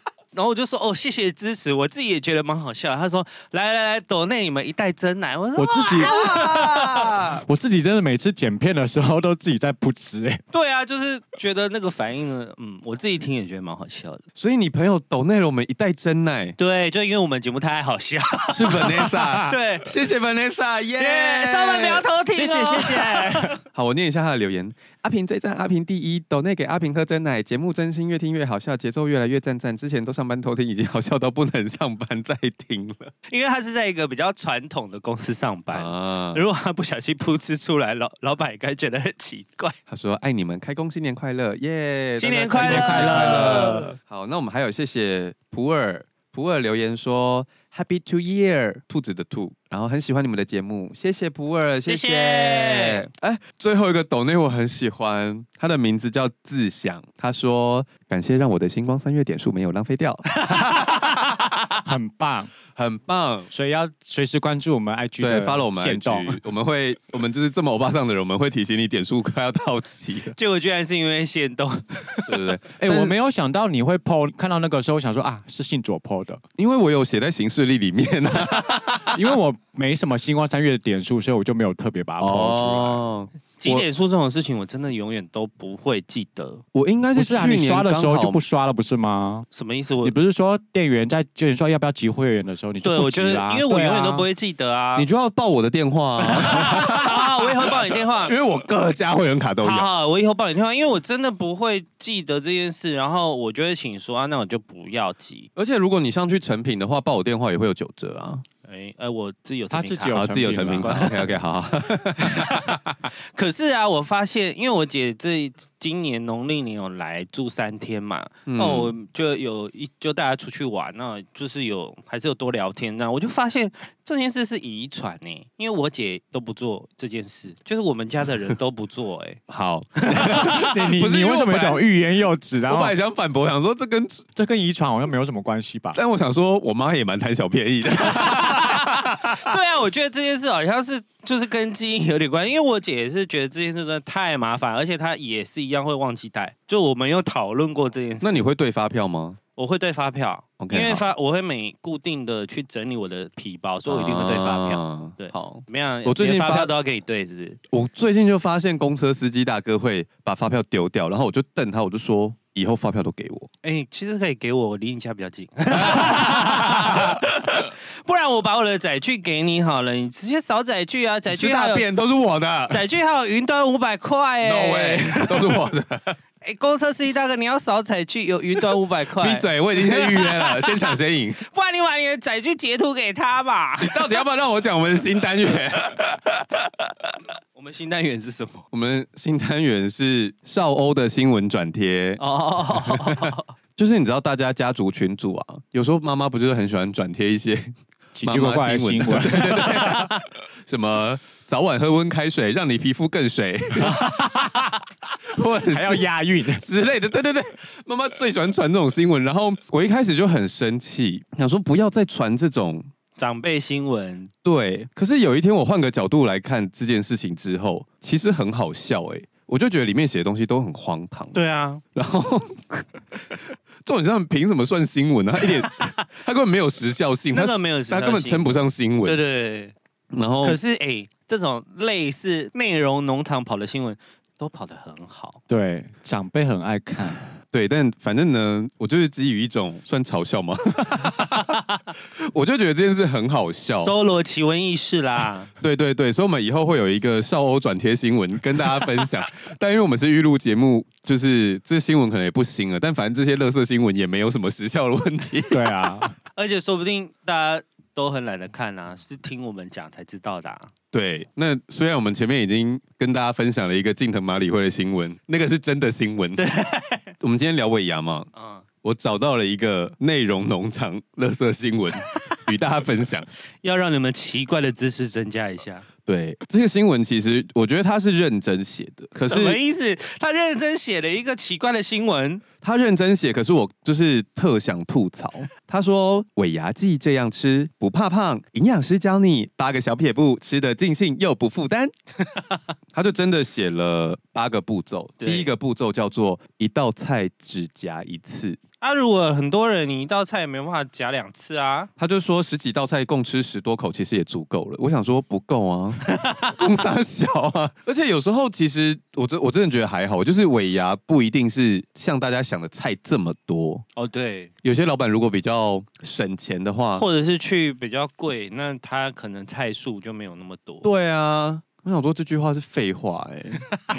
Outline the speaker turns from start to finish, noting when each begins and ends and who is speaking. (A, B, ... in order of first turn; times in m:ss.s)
0:00.3-0:07.1 A
0:05.6-0:10.4 B
0:06.0-0:07.4 C
0:10.5-0:14.2 A
0:14.4-0:16.6 C
0:16.6-0:19.9 A
0:18.5-0:22.1 C
0:21.0-0:23.6 A
0:22.3-0:23.5 B
0:23.6-0:33.1 C
0:33.3-0:39.8 A
0:35.7-0:36.4 C
0:39.9-1:01.5 C
0:42.2-0:43.9 A
0:42.6-0:43.9 B
0:51.9-0:53.0 A
1:00.4-1:00.7 A
1:01.8-1:02.5 B
1:02.7-1:03.5 C
1:03.5-1:06.4 B
1:05.2-1:10.4 C
1:10.4-1:12.3 A
1:12.3-1:13.2 C
1:12.8-1:16.4 B
1:16.6-1:19.4 C
1:19.1-1:23.0 B
1:22.2-1:23.9 C
1:23.6-1:26.6 A
1:26.7-1:28.4 C
1:27.2-1:29.5 B
1:29.5-1:30.2 A
1:30.0-1:34.3 B
1:32.8-1:35.1 A
1:35.0-1:39.9 C
1:36.2-1:38.4 A
1:39.6-1:45.5 A
1:45.6-1:48.4 C
1:48.6-1:51.3 A
1:49.7-1:51.2 B
1:50.1-1:53.1 C
1:52.2-2:09.4 A
1:58.5-1:58.9 C
2:09.5-2:11.9 C
2:10.0-2:10.6 A
2:10.3-2:13.0 B
2:12.7-2:14.3 C
2:14.4-2:16.0 B
2:15.9-2:19.5 C
2:18.0-2:28.4 A
2:28.2-2:29.4 C
2:29.6-2:37.6 A
2:30.6-2:31.0 C
2:33.9-2:36.7 C
2:37.7-2:43.5 C
2:43.6-2:51.9 A
2:45.7-2:47.7 C
2:51.3-2:52.8 C
2:52.7-2:55.6 A
2:54.4-2:56.2 C
2:56.4-3:04.2 A
2:59.1-3:01.4 C
3:03.8-3:06.2 C
3:07.5-3:08.6 A
3:08.7-3:12.2 C
3:12.2-3:13.5 A
3:12.8-3:24.5 C
3:18.1-3:20.1 B
3:19.6-3:20.2 A
3:23.8-3:24.8 B
3:25.2-3:32.9 C
3:25.7-3:26.6 B
3:33.2-3:34.3 A
3:34.4-3:41.4 C
3:41.3-3:41.8 A
3:42.0-3:49.2 C
3:47.3-3:48.5 A
3:49.0-3:49.7 A
3:50.1-3:50.6 C
3:50.4-3:55.4 A
3:55.5-3:57.2 B
3:57.5-4:03.9 C
4:03.8-4:05.5 A
4:05.6-4:15.9 C
4:15.5-4:16.1 B
4:16.3-4:20.7 A
4:20.9-4:26.5 C
4:26.4-4:27.1 A
4:27.2-4:28.3 C
4:28.3-4:28.7 A
4:28.8-4:33.3 C
4:33.6-4:35.9 A
4:36.1-4:39.6 C
4:39.2-4:42.4 A
4:42.6-4:51.9 C
4:52.9-4:58.6 C
4:55.2-4:55.5 A
4:58.8-5:01.9 A
5:02.0-5:13.8 C
5:06.0-5:06.6 A
5:14.0-5:14.5 A
5:14.6-5:17.1 C
5:17.0-5:20.9 A
5:20.8-5:23.6 C